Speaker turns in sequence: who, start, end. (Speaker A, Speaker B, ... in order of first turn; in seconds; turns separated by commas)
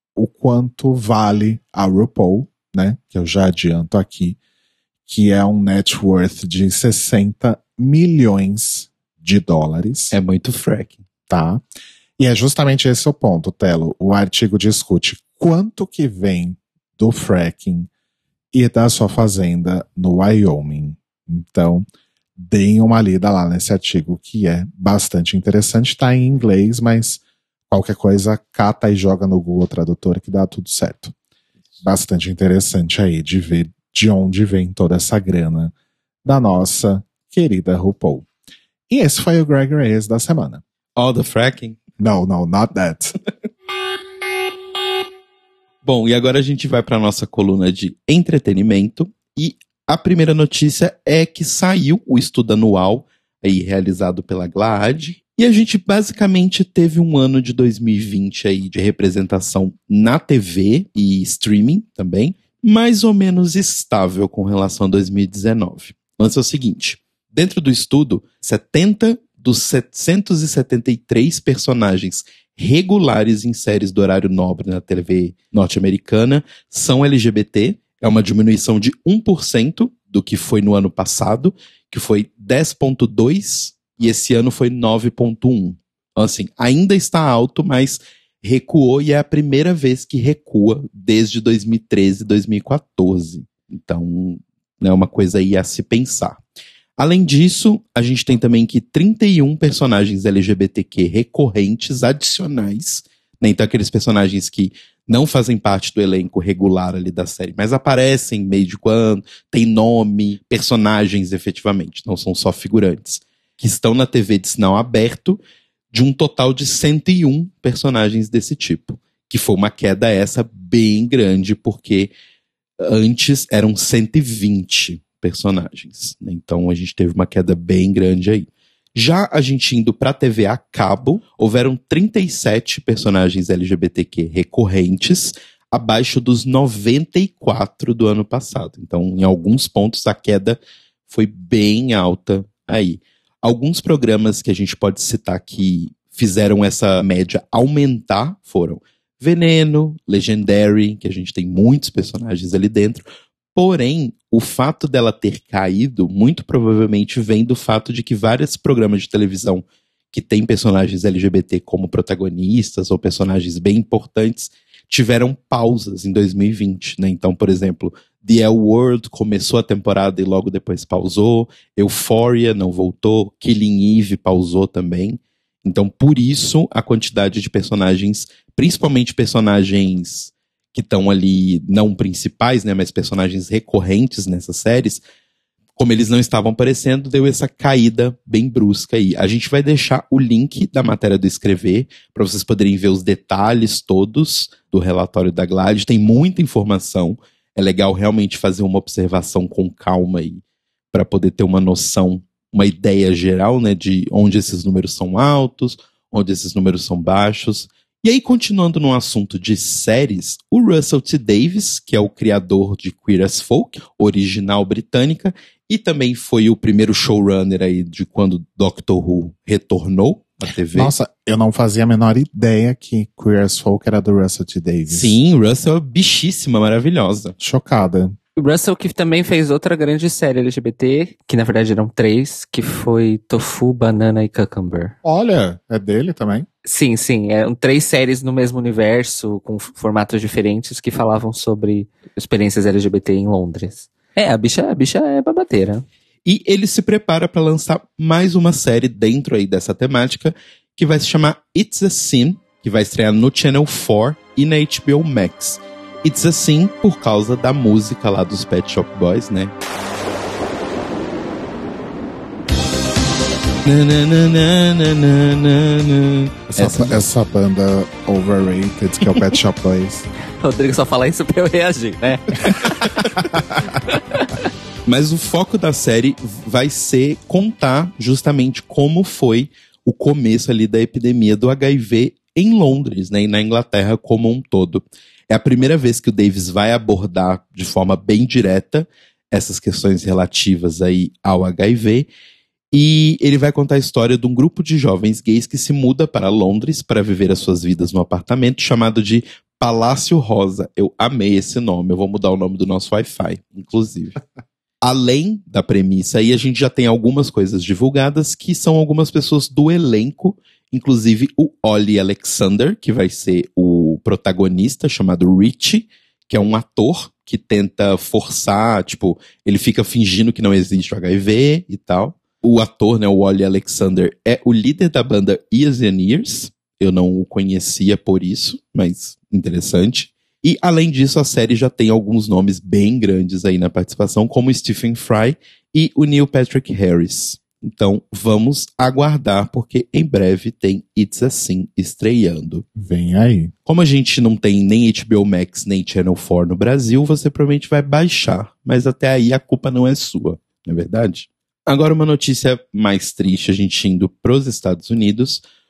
Speaker A: 0.2-4.4, Speaker A: 5.1-10.1, Speaker B: 10.1-11.0, Speaker A: 11.3-11.6, Speaker A: 12.2-17.9, Speaker A: 18.5-21.8, Speaker A: 22.4-31.1, Speaker A: 31.8-35.7, Speaker A: 36.2-38.2, Speaker A: 38.9-40.6, Speaker B: 41.0-41.8, Speaker A: 42.0-43.1, Speaker B: 45.8-96.4, Speaker B: 97.0-115.4, Speaker B: 115.9-122.1, Speaker B: 122.8-153.0, Speaker B: 153.5-185.0, Speaker B: 185.8-200.4, Speaker B: 200.9-220.9, Speaker A: 220.7-225.2, Speaker B: 224.9-227.3, Speaker A: 227.4-228.1, Speaker C: 228.4-234.9, Speaker A: 235.0-236.4, Speaker C: 236.6-245.8, Speaker B: 246.2-259.5, Speaker B: 263.6-267.0, Speaker A: 266.5-270.1, Speaker C: 270.4-272.9, Speaker B: 272.6-273.1, Speaker C: 273.9-274.3, Speaker B: 274.9-292.1, Speaker B: 292.7-304.2, Speaker B: 304.8-342.6, Speaker A: 342.8-343.5, Speaker B: 343.6-355.4